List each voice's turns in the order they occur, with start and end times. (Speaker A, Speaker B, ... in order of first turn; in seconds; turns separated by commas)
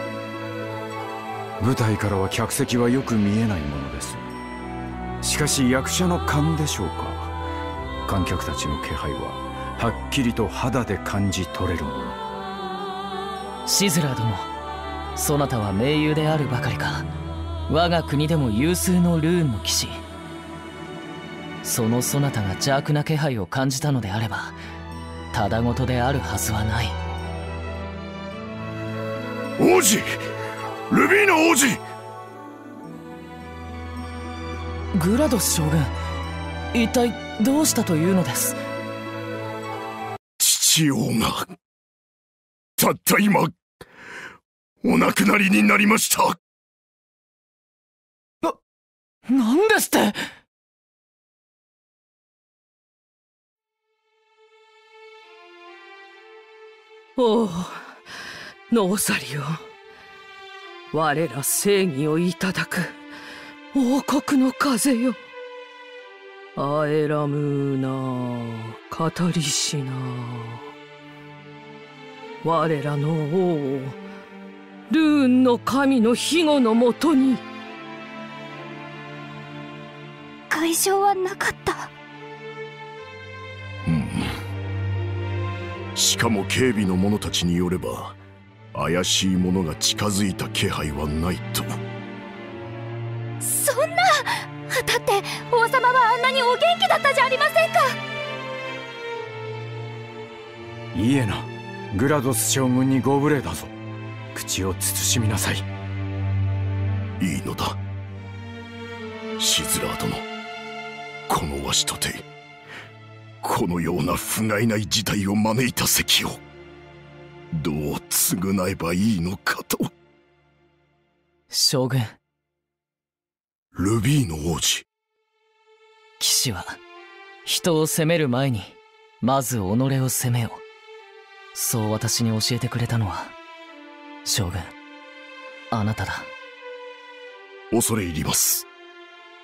Speaker A: 1.6-4.3, Speaker A: 5.2-7.3, Speaker A: 8.1-12.2, Speaker B: 13.7-14.5, Speaker B: 15.2-17.1, Speaker B: 17.7-20.0, Speaker B: 21.6-24.6, Speaker B: 25.3-27.0, Speaker C: 29.6-30.2, Speaker C: 30.9-31.8, Speaker B: 34.9-35.9, Speaker B: 36.7-38.6, Speaker C: 40.4-41.5, Speaker C: 42.8-43.6, Speaker C: 44.8-46.4, Speaker B: 49.3-50.2, Speaker D: 57.2-58.0, Speaker D: 58.7-59.6, Speaker D: 60.9-63.0, Speaker D: 63.7-65.2, Speaker D: 66.5-70.7, Speaker D: 72.4-74.0, Speaker D: 74.9-77.4, Speaker E: 80.5-81.9, Speaker C: 83.8-84.3, Speaker C: 86.0-88.2, Speaker C: 88.7-91.8, Speaker E: 93.6-93.9, Speaker E: 94.8-97.8, Speaker A: 100.9-103.7, Speaker A: 104.3-105.7, Speaker C: 107.2-107.8, Speaker C: 109.4-110.2, Speaker C: 111.3-112.2, Speaker C: 113.4-116.4, Speaker C: 117.5-119.9, Speaker B: 121.5-122.2, Speaker C: 123.8-124.8, Speaker B: 126.2-126.8, Speaker B: 127.4-130.6, Speaker B: 131.5-133.3, Speaker B: 134.2-134.7, Speaker B: 135.7-136.3, Speaker C: 137.7-138.7